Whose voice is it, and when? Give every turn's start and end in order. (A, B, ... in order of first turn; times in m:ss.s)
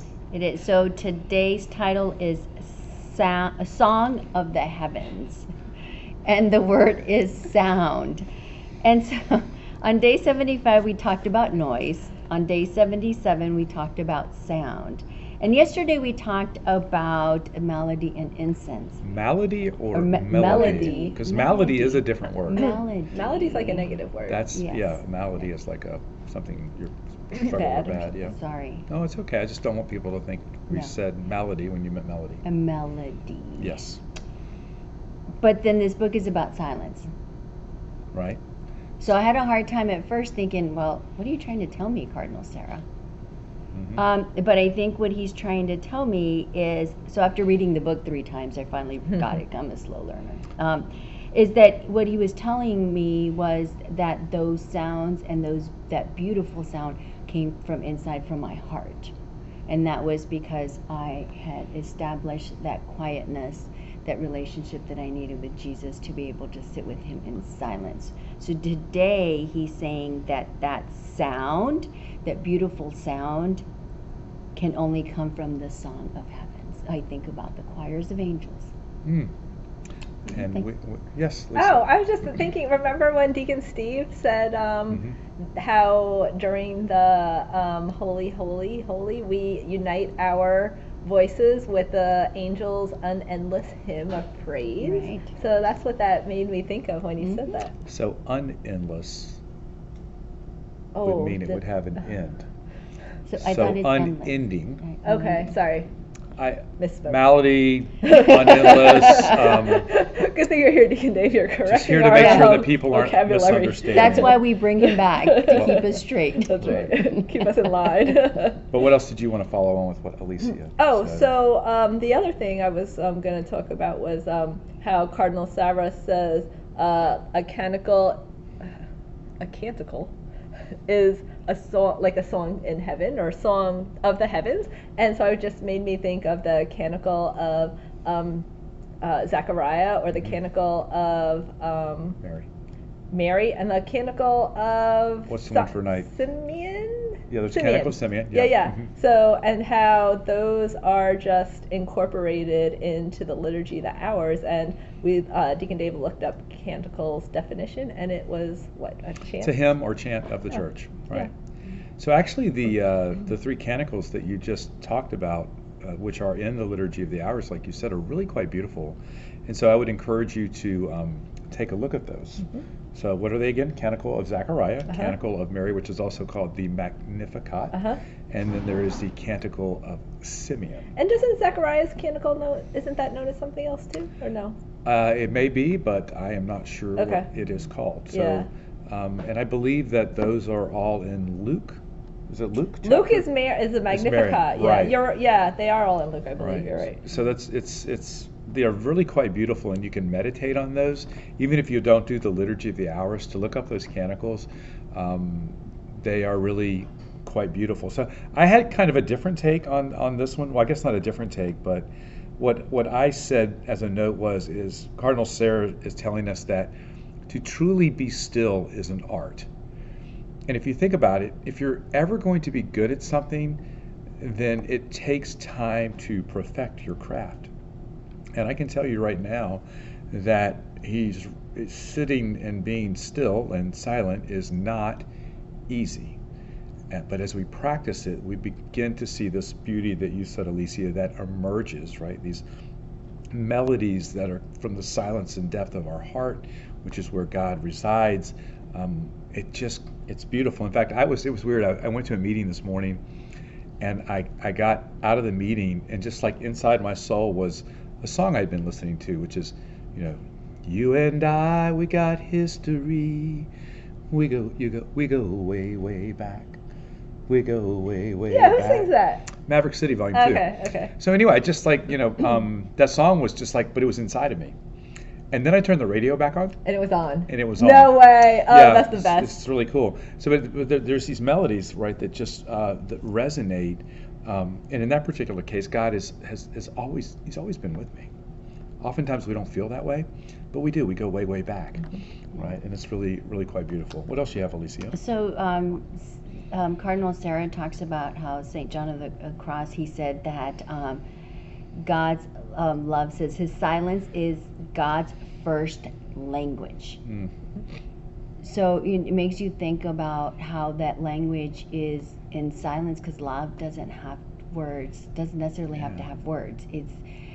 0:00.3-0:05.5 A
0:06.3-0:08.3 A
0:08.8-0:19.0 A
0:19.0-0:22.7 B
0:19.9-0:24.0 A
0:20.3-0:21.2 C
0:22.6-0:24.4 C
0:24.3-0:28.4 B
0:24.5-0:25.0 A
0:27.3-0:28.1 C
0:28.2-0:28.9 A
0:28.9-0:32.4 B
0:32.4-0:33.8 A
0:33.6-0:34.0 B
0:35.4-0:37.1 A
0:38.1-0:38.4 B
0:39.0-0:42.8 A
0:43.7-0:44.0 B
0:44.0-0:59.1 A
0:59.7-1:13.6 A
1:14.6-1:18.7 A
1:19.0-1:19.3 B
1:20.3-1:21.9 B
1:21.6-1:37.8 C
1:34.8-1:35.3 A
1:37.9-1:39.4 B
1:40.9-1:41.6 C
1:41.0-1:42.5 B
1:43.2-1:45.6 A
1:43.4-1:44.8 B
1:45.0-1:45.9 C
1:46.4-1:49.9 B
1:46.8-1:47.2 C
1:48.0-1:58.6 C
1:51.6-1:54.5 B
1:52.1-1:52.7 A
1:53.8-1:56.9 A
1:55.5-1:55.9 B
1:56.6-1:57.0 B
1:58.7-2:01.3 B
2:00.8-2:08.7 C
2:09.4-2:10.1 C
2:10.9-2:18.5 C
2:19.0-2:22.2 C
2:22.2-2:22.5 B
2:23.1-2:39.7 C
2:25.3-2:26.1 B
2:27.3-2:28.8 B
2:39.4-2:41.3 B
2:42.0-3:00.9 B
2:57.7-2:58.0 C
3:01.0-3:04.6 C
3:04.8-3:13.3 B
3:07.0-3:07.3 C
3:08.1-3:08.5 C
3:12.8-3:17.0 C
3:13.9-3:15.0 B
3:16.4-3:36.7 B
3:37.3-3:39.5 B
3:40.5-3:43.6 B
3:44.2-3:47.5 B
3:48.3-3:55.1 B
3:55.7-3:56.2 B
3:56.9-4:02.4 B
4:03.3-4:13.0 B
4:13.8-4:23.5 B
4:24.1-4:26.6 B
4:27.3-4:34.6 B
4:28.3-4:29.3 C
4:30.1-4:30.9 C
4:35.3-4:36.6 B
4:36.6-4:39.4 C
4:37.3-4:48.1 B
4:48.8-4:55.0 B
4:54.9-5:01.0 A
5:01.8-5:07.0 A
5:08.4-5:17.0 A
5:15.7-5:16.0 B